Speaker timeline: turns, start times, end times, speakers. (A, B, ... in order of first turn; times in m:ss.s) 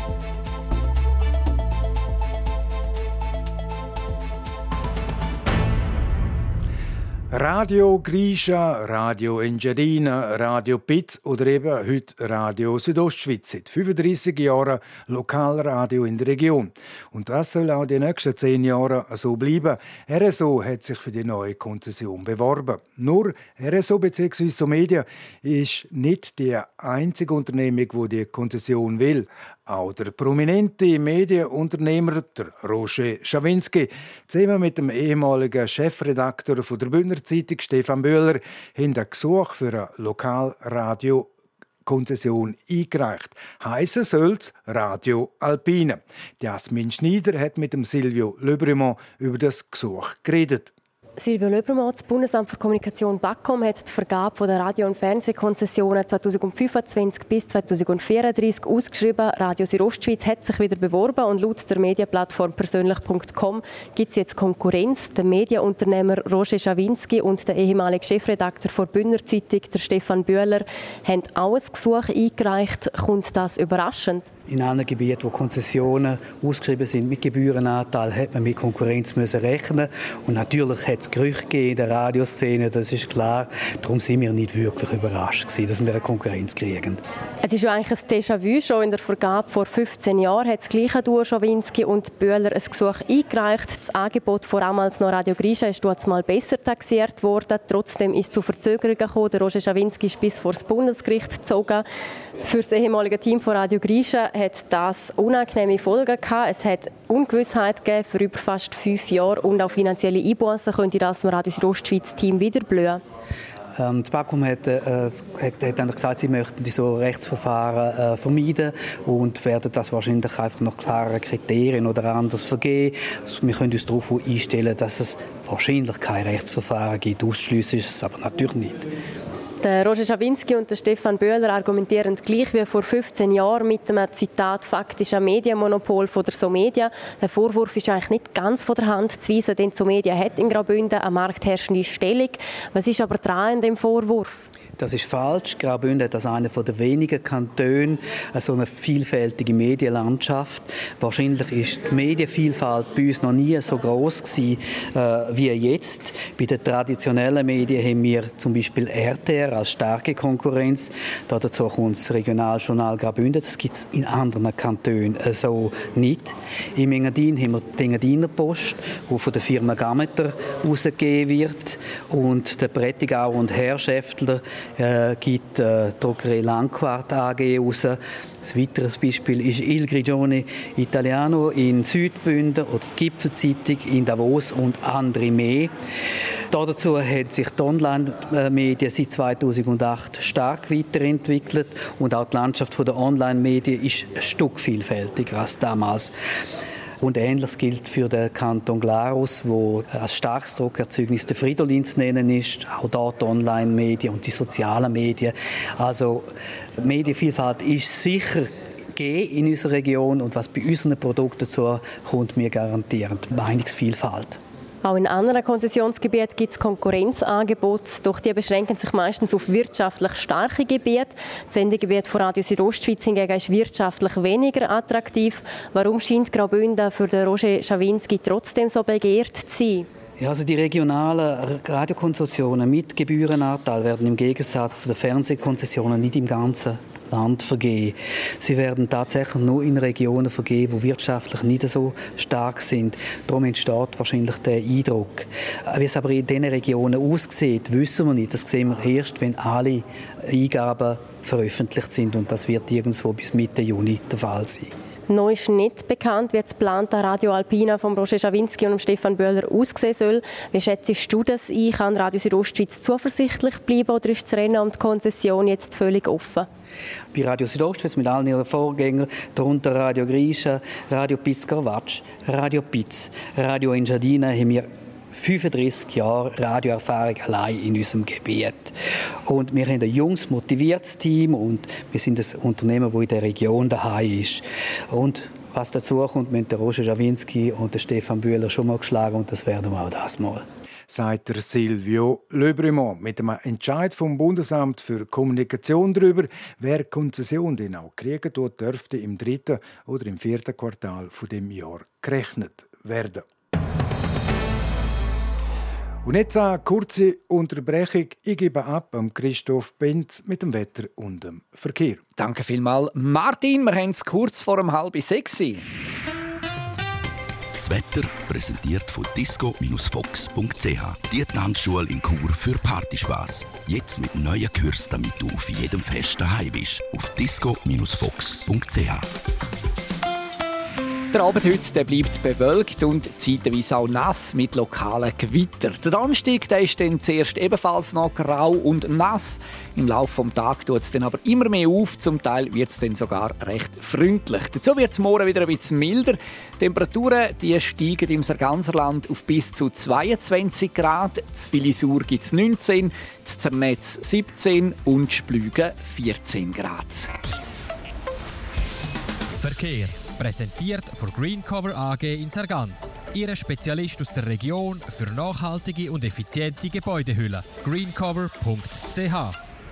0:07.3-0:41.3 A
0:41.8-0:50.7 A
0:51.2-1:14.3 B
1:14.5-1:27.0 C
1:27.4-1:41.8 B
1:42.4-1:53.0 B
1:53.8-2:08.9 C
2:09.6-2:24.4 B
2:24.8-3:05.7 C
3:06.5-3:16.1 C
3:17.0-3:34.4 C
3:34.8-3:49.9 B
3:50.2-4:14.7 C
4:15.1-4:26.5 B
4:27.1-4:50.4 C
4:50.9-5:03.2 A
5:06.0-5:12.0 A
5:12.2-5:15.6 D
5:17.6-5:29.1 E
5:31.1-5:57.1 D
5:59.4-6:09.4 F